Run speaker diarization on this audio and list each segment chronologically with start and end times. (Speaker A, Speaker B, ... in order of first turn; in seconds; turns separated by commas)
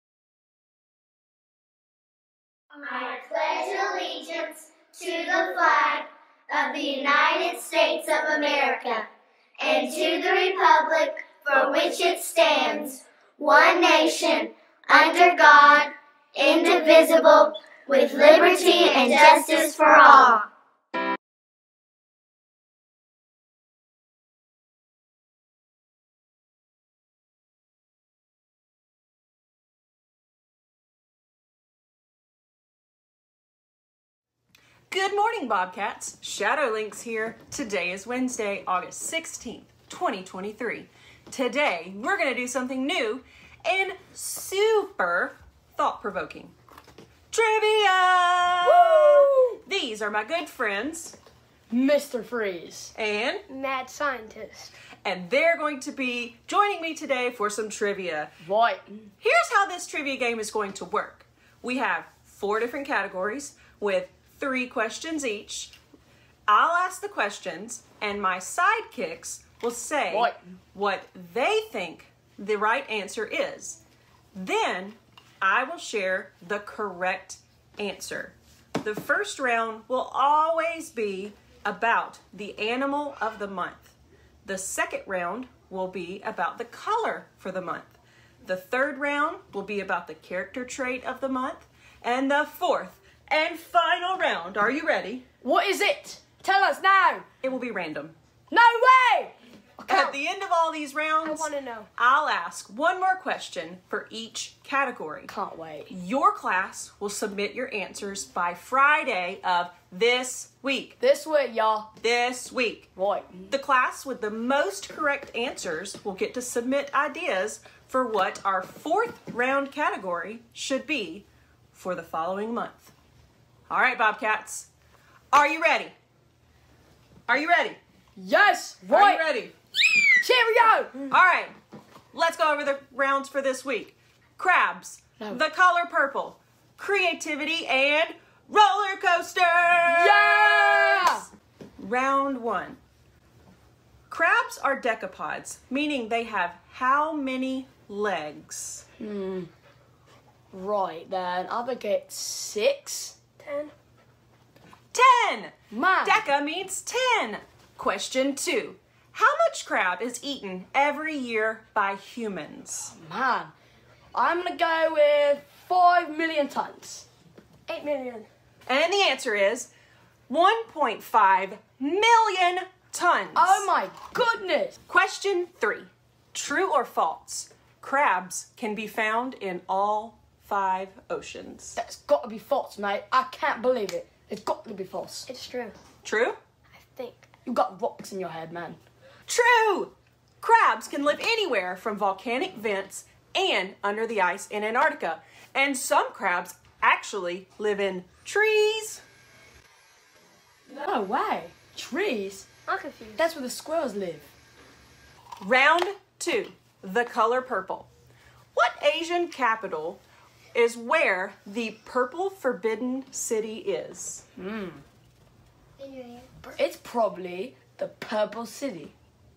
Speaker A: 2.8-9.1, Speaker A: 9.6-20.5, Speaker B: 34.9-46.5, Speaker B: 47.3-51.1, Speaker C: 48.6-49.6, Speaker C: 51.7-52.9, Speaker B: 53.0-53.5, Speaker D: 53.5-54.8, Speaker B: 55.0-58.3, Speaker C: 58.4-59.1, Speaker B: 59.2-65.8, Speaker B: 66.5-73.8, Speaker C: 70.1-70.4, Speaker B: 74.3-95.2, Speaker C: 95.4-97.2, Speaker B: 97.4-98.2, Speaker C: 98.5-100.2, Speaker B: 99.9-105.3, Speaker D: 101.2-101.9, Speaker C: 105.3-105.9, Speaker B: 105.9-111.0, Speaker C: 111.0-111.9, Speaker B: 112.0-112.9, Speaker C: 113.0-113.5, Speaker B: 113.5-122.9, Speaker B: 123.7-124.7, Speaker B: 125.3-125.9, Speaker B: 127.3-127.8, Speaker C: 128.2-129.2, Speaker B: 128.9-129.5, Speaker C: 130.2-131.0, Speaker B: 131.0-131.6, Speaker B: 132.1-141.2, Speaker C: 139.9-141.2, Speaker B: 141.8-142.8, Speaker B: 144.1-148.8, Speaker C: 149.0-149.5, Speaker C: 150.5-153.2, Speaker D: 153.4-153.7, Speaker B: 154.9-162.9, Speaker C: 155.7-156.2, Speaker C: 162.9-163.5, Speaker C: 164.1-167.1, Speaker D: 167.8-168.3, Speaker B: 168.7-169.7, Speaker B: 170.3-173.7, Speaker C: 173.3-174.8, Speaker B: 174.9-181.8, Speaker C: 181.8-185.3, Speaker D: 185.3-185.8, Speaker B: 186.0-186.4, Speaker D: 186.8-187.3, Speaker C: 187.4-188.8, Speaker B: 189.3-199.0, Speaker C: 200.7-202.5, Speaker D: 202.7-203.2, Speaker C: 203.2-204.3, Speaker B: 205.4-207.9, Speaker B: 208.5-210.0, Speaker B: 210.5-214.2, Speaker C: 214.4-214.8, Speaker D: 215.8-216.5, Speaker C: 216.5-218.9